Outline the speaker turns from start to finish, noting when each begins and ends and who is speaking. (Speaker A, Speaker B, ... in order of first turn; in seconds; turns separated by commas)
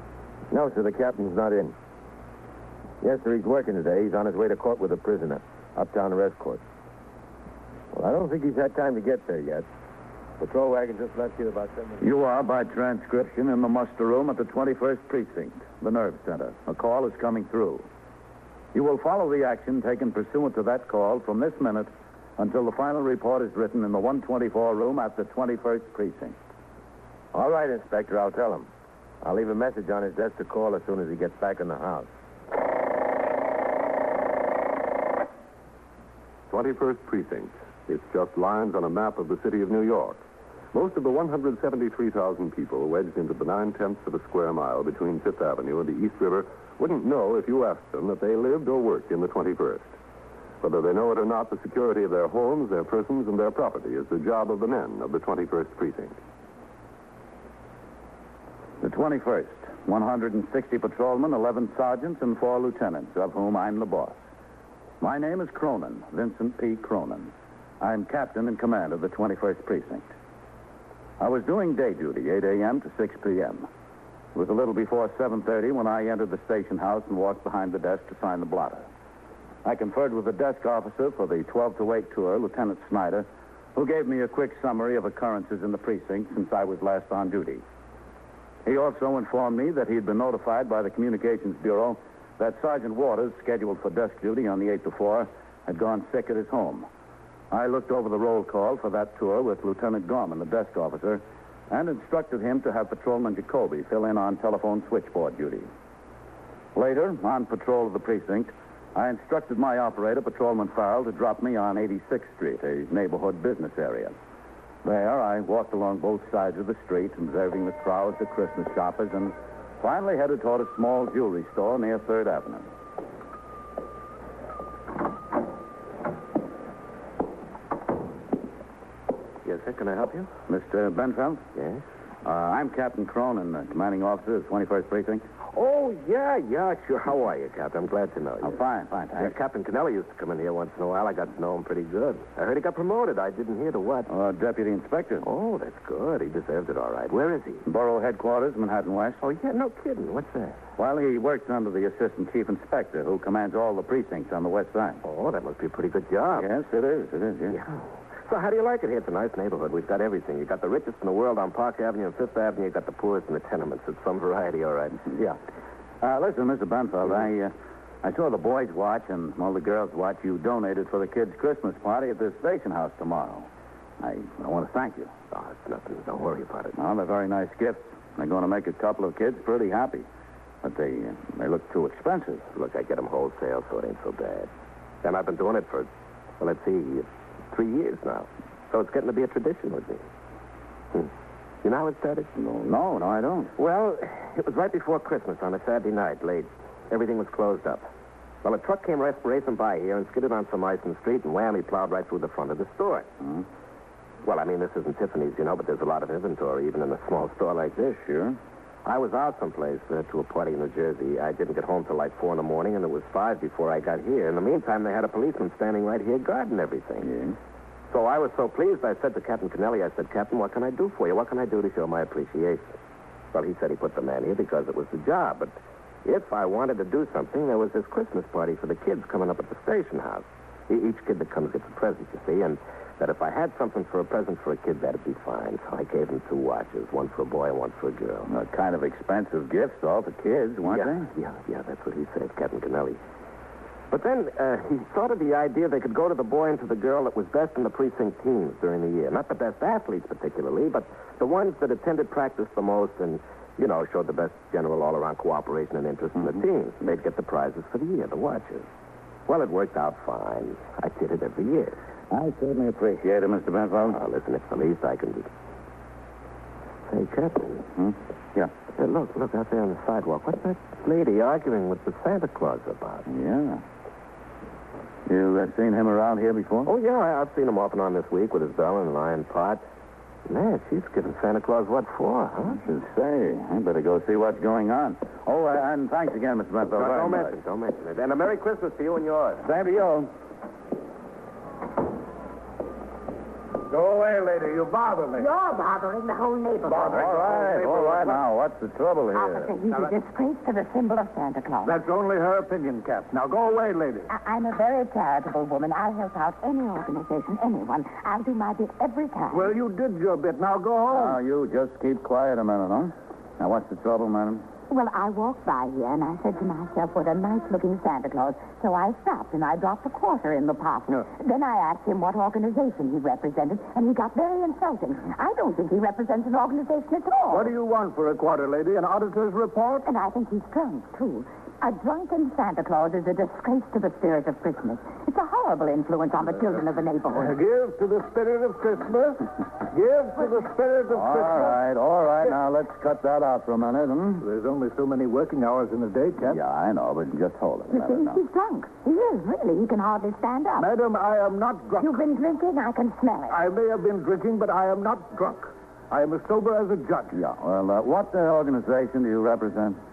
Speaker A: 0.5-1.7, Speaker A: 3.0-6.6, Speaker A: 7.9-9.7, Speaker A: 10.4-12.1, Speaker B: 12.0-17.9, Speaker B: 18.7-26.4, Speaker A: 27.3-28.7, Speaker A: 29.2-32.1, Speaker C: 36.5-40.2, Speaker C: 40.7-49.9, Speaker C: 50.6-56.1, Speaker B: 58.8-64.2, Speaker B: 65.0-70.1, Speaker B: 71.2-73.7, Speaker B: 74.3-78.9, Speaker B: 79.6-87.6, Speaker B: 88.6-96.9, Speaker B: 97.5-105.7, Speaker B: 106.7-114.1, Speaker B: 114.8-122.7, Speaker D: 129.4-130.3, Speaker B: 130.5-131.4, Speaker D: 131.6-131.8, Speaker B: 132.2-135.2, Speaker D: 135.5-138.6, Speaker B: 138.4-139.3, Speaker D: 139.2-144.1, Speaker B: 144.1-145.3, Speaker D: 145.2-147.6, Speaker B: 147.7-149.2, Speaker D: 149.2-150.6, Speaker B: 150.8-155.0, Speaker D: 155.0-156.5, Speaker B: 156.4-157.6, Speaker D: 158.3-165.0, Speaker B: 165.1-165.4, Speaker B: 166.0-167.5, Speaker B: 168.0-173.5, Speaker B: 174.0-175.1, Speaker D: 175.3-176.8, Speaker B: 176.8-180.1, Speaker B: 180.6-182.5, Speaker D: 182.5-184.5, Speaker D: 185.0-185.9, Speaker D: 186.4-190.0, Speaker D: 191.6-192.3, Speaker B: 192.4-193.5, Speaker D: 193.6-197.9, Speaker D: 198.4-203.1, Speaker D: 204.2-208.0, Speaker B: 207.9-208.4, Speaker D: 208.8-217.1, Speaker B: 217.0-217.3, Speaker D: 217.9-222.7, Speaker D: 223.3-225.5, Speaker D: 226.0-238.3, Speaker B: 238.3-241.1, Speaker D: 240.7-243.0, Speaker D: 243.9-258.7, Speaker D: 259.3-261.8, Speaker B: 262.1-264.0, Speaker D: 263.9-265.3, Speaker D: 266.9-267.6, Speaker B: 267.7-268.5, Speaker D: 268.8-273.0, Speaker B: 273.1-273.6, Speaker B: 275.1-276.7, Speaker D: 276.6-279.6, Speaker D: 280.3-282.6, Speaker B: 282.6-287.3, Speaker D: 286.7-289.4, Speaker B: 289.4-290.1, Speaker E: 293.7-295.3, Speaker F: 295.1-297.1, Speaker E: 296.7-298.2, Speaker B: 296.8-299.5, Speaker F: 299.1-301.8, Speaker E: 301.6-304.1, Speaker F: 304.1-309.5, Speaker E: 309.3-311.2, Speaker B: 310.9-314.4, Speaker F: 314.7-327.5, Speaker E: 327.3-329.9, Speaker F: 329.8-337.4, Speaker E: 337.1-341.6, Speaker B: 340.9-344.2, Speaker E: 344.2-346.4, Speaker B: 346.3-348.2, Speaker F: 347.7-350.7, Speaker E: 350.6-352.0, Speaker F: 351.8-353.4, Speaker E: 353.3-357.2, Speaker B: 357.1-359.8